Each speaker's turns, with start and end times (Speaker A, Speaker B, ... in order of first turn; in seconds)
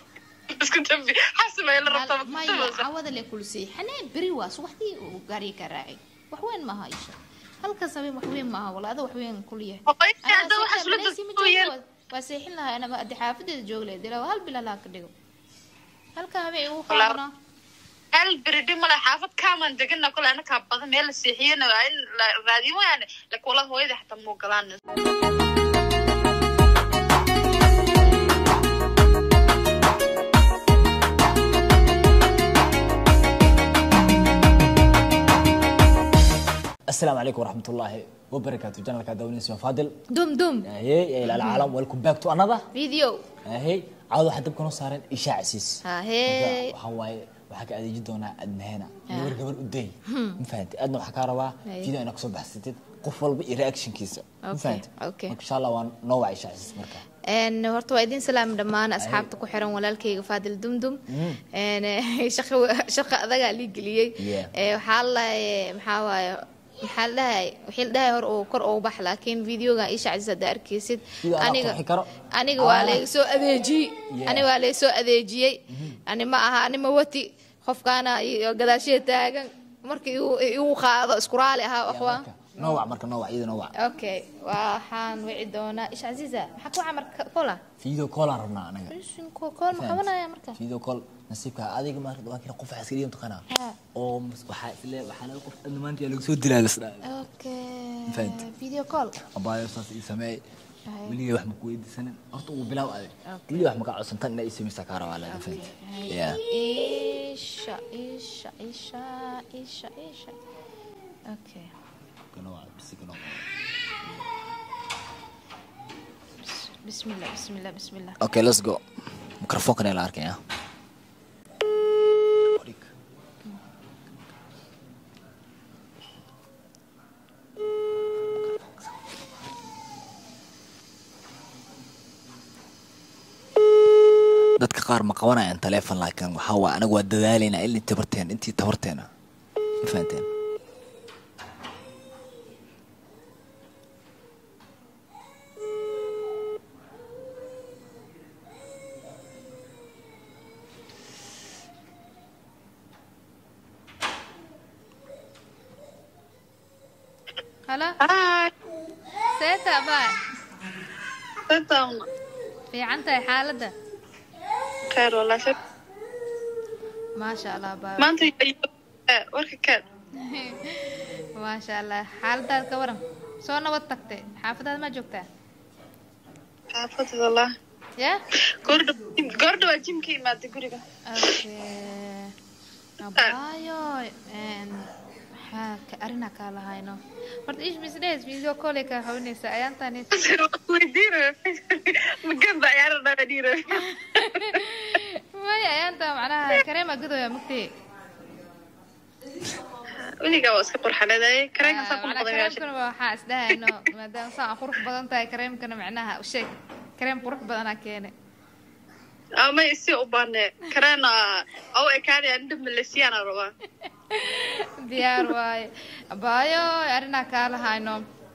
Speaker A: 0.5-2.8, 9.9-11.7, 16.9-17.2, 18.1-24.8, 158.0-158.5, 161.5-162.0, 164.9-165.6, 168.0-169.8, 176.7-177.5, 178.6-181.4, 190.1-194.5, 200.0-202.6, 209.4-211.2, 211.8-213.5
Speaker B: 1.9-15.1, 16.2-17.3, 40.1-40.7, 41.3-41.7, 42.7-43.2, 45.9-46.8, 49.1-49.4, 50.1-50.4, 51.6-51.9, 54.4-55.4, 57.3-61.0, 61.5-71.8, 72.3-82.9, 83.8-87.6, 88.9-90.6, 93.5-93.8, 97.0-99.2, 100.9-101.2, 103.3-103.7, 105.3-110.4, 111.3-111.7, 116.4-118.2, 157.7-158.0, 159.4-160.2, 162.7-163.7, 167.2-168.2, 170.2-175.2, 181.1-182.3, 183.0-184.9, 185.5-190.1, 193.8-197.7, 201.6-208.1, 214.1-218.0
Speaker C: 36.9-40.0, 40.6-42.7, 43.5-57.0, 59.0-59.3, 61.1-61.4, 64.2-64.5, 71.2-73.0, 74.1-74.5, 75.7-76.0, 81.9-83.7, 87.8-89.0, 89.7-97.1, 98.1-98.5, 99.2-100.4, 101.1-106.4, 112.3-113.4, 118.2-118.8, 119.4-120.4, 122.5-122.9, 134.6-139.1, 139.8-140.3